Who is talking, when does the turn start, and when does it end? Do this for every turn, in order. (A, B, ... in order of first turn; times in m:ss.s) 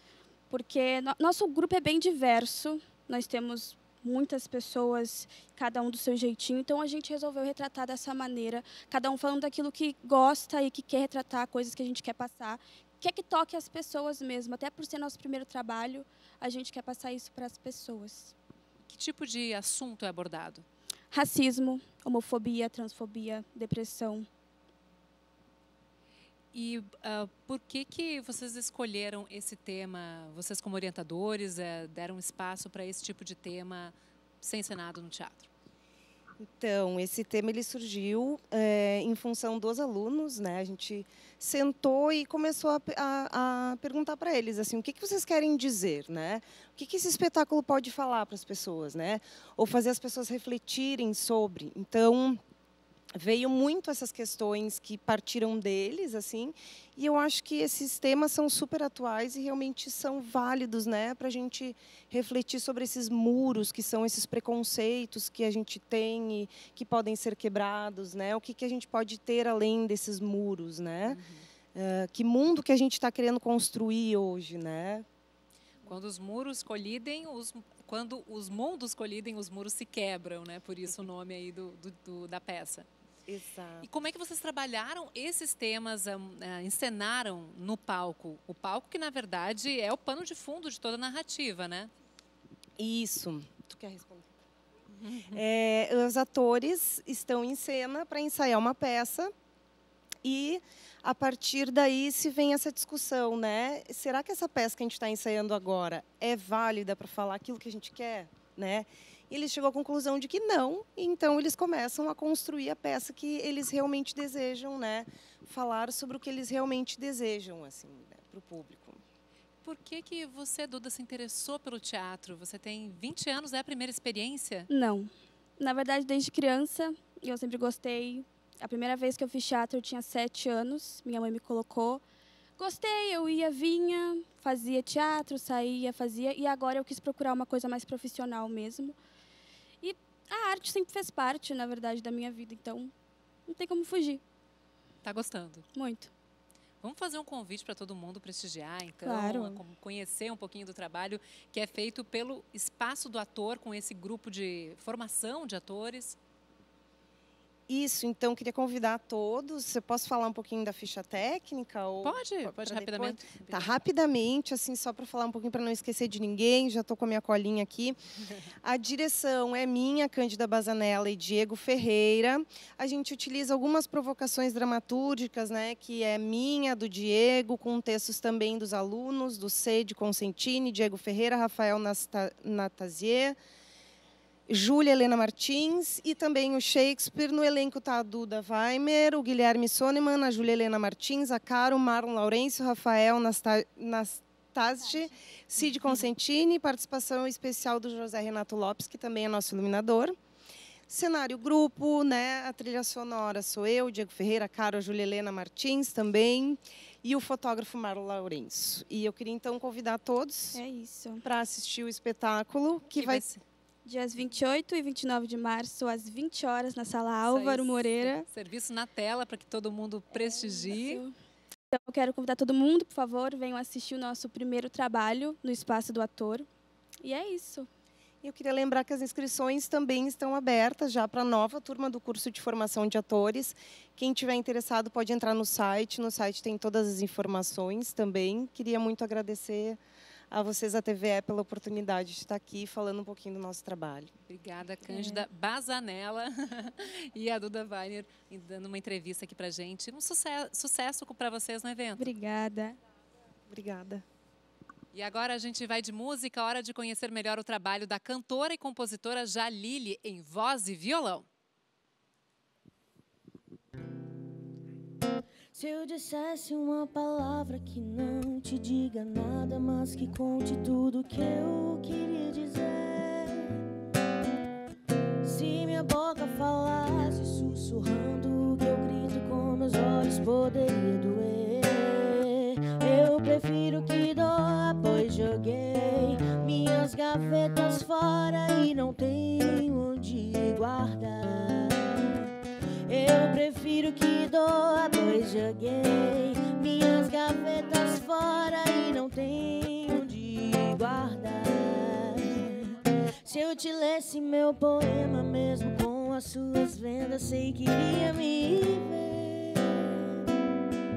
0:00.5-0:18.3 A
0:18.9-0:20.6 B
0:21.1-0:24.3 A
0:26.5-0:35.5 B
0:36.4-0:52.4 C
0:53.1-1:11.2 C
1:11.1-1:11.5 B
1:11.7-1:15.0 C
1:15.8-1:22.9 B
1:23.3-1:23.9 C
1:23.8-1:31.9 B
1:32.8-1:34.3 C
1:35.0-1:35.4 B
1:35.3-1:39.3 C
1:40.2-1:59.0 C
1:59.6-2:04.7 B
2:04.7-2:12.0 A
2:12.6-2:19.0 A
2:19.8-2:22.9 A
2:23.5-2:24.2 A
2:25.0-2:25.6 B
2:25.7-2:26.1 A
2:26.8-2:36.2 B
2:29.0-2:29.6 A
2:37.7-2:48.0 C
2:42.0-2:43.8 B
2:48.6-3:03.4 C
3:04.5-3:20.2 C
3:20.9-3:30.6 C
3:30.5-3:31.2 A
3:31.2-3:33.2 C
3:33.0-3:33.4 B
3:33.8-3:38.3 A
3:37.3-3:41.0 B
3:40.2-3:41.1 A
3:41.7-3:46.5 A
3:47.0-3:47.7 A
3:48.2-3:59.8 C
4:00.3-4:04.1 C
4:04.3-4:12.1 B
4:04.9-4:05.2 C
4:12.0-4:12.8 A
4:13.5-4:14.0 C
4:14.9-4:21.3 B
4:25.5-4:33.6 D
4:35.2-4:52.3 D
4:52.9-5:10.0 D